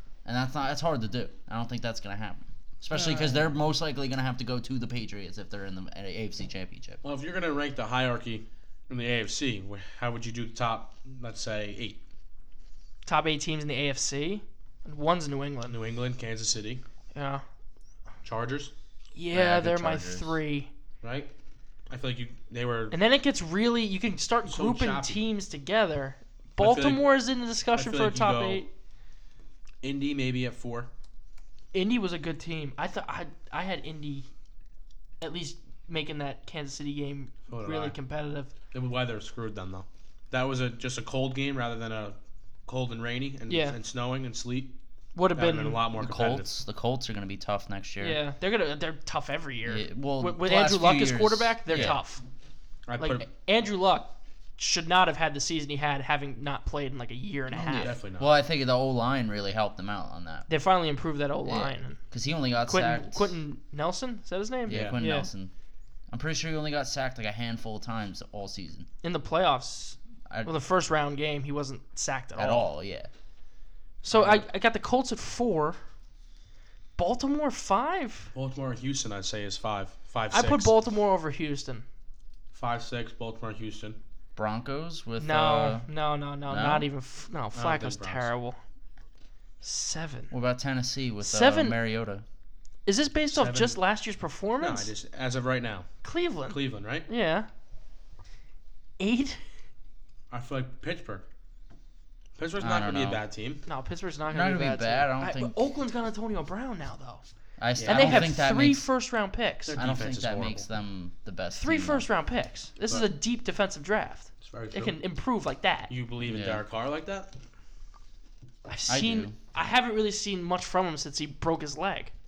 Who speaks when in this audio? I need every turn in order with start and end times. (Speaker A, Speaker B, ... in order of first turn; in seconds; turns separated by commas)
Speaker A: 0.2-7.0, Speaker B: 7.0-12.0, Speaker C: 13.1-15.8, Speaker B: 15.7-16.8, Speaker C: 17.1-17.4, Speaker B: 18.2-18.7, Speaker C: 19.1-20.7, Speaker A: 19.3-20.4, Speaker B: 21.0-21.3, Speaker B: 21.9-23.0, Speaker C: 22.9-28.7, Speaker B: 24.5-25.2, Speaker B: 26.6-27.1, Speaker B: 27.7-28.6, Speaker B: 29.8-30.9, Speaker C: 31.7-34.3, Speaker C: 35.2-38.5, Speaker B: 37.5-38.0, Speaker B: 38.7-44.8, Speaker C: 43.5-43.8, Speaker C: 45.1-45.8, Speaker B: 45.3-46.5, Speaker A: 45.9-48.2, Speaker C: 48.0-52.2, Speaker A: 49.6-52.0, Speaker B: 51.7-52.0, Speaker B: 52.9-53.3, Speaker C: 53.0-57.9, Speaker A: 57.5-60.5, Speaker B: 57.7-58.3, Speaker C: 60.5-62.0, Speaker A: 61.4-63.4, Speaker C: 62.6-65.3, Speaker A: 64.7-65.5, Speaker B: 64.7-65.0, Speaker A: 66.1-68.9, Speaker C: 69.0-72.7, Speaker A: 72.3-73.1, Speaker C: 74.0-75.8, Speaker A: 74.1-74.4, Speaker C: 77.0-78.3, Speaker B: 78.3-80.7, Speaker C: 80.3-81.8, Speaker B: 82.5-84.0, Speaker A: 84.3-85.9, Speaker C: 85.2-88.6, Speaker A: 86.5-86.9, Speaker B: 87.5-88.3, Speaker C: 89.6-90.3, Speaker A: 90.3-92.2, Speaker C: 91.2-91.8, Speaker C: 92.8-94.9, Speaker B: 93.3-93.8, Speaker B: 94.6-95.9, Speaker C: 96.0-97.5, Speaker B: 96.5-97.1, Speaker C: 99.0-99.4, Speaker B: 100.3-101.2, Speaker B: 102.4-103.6, Speaker A: 102.6-103.2, Speaker C: 103.7-107.2, Speaker A: 104.3-105.5, Speaker A: 107.6-108.8, Speaker B: 107.8-108.3, Speaker C: 107.8-109.8, Speaker B: 109.7-110.7, Speaker A: 109.8-112.1, Speaker C: 111.5-115.9, Speaker B: 114.4-115.0, Speaker B: 115.9-117.3, Speaker A: 116.2-116.6, Speaker C: 118.6-122.1, Speaker A: 118.9-119.3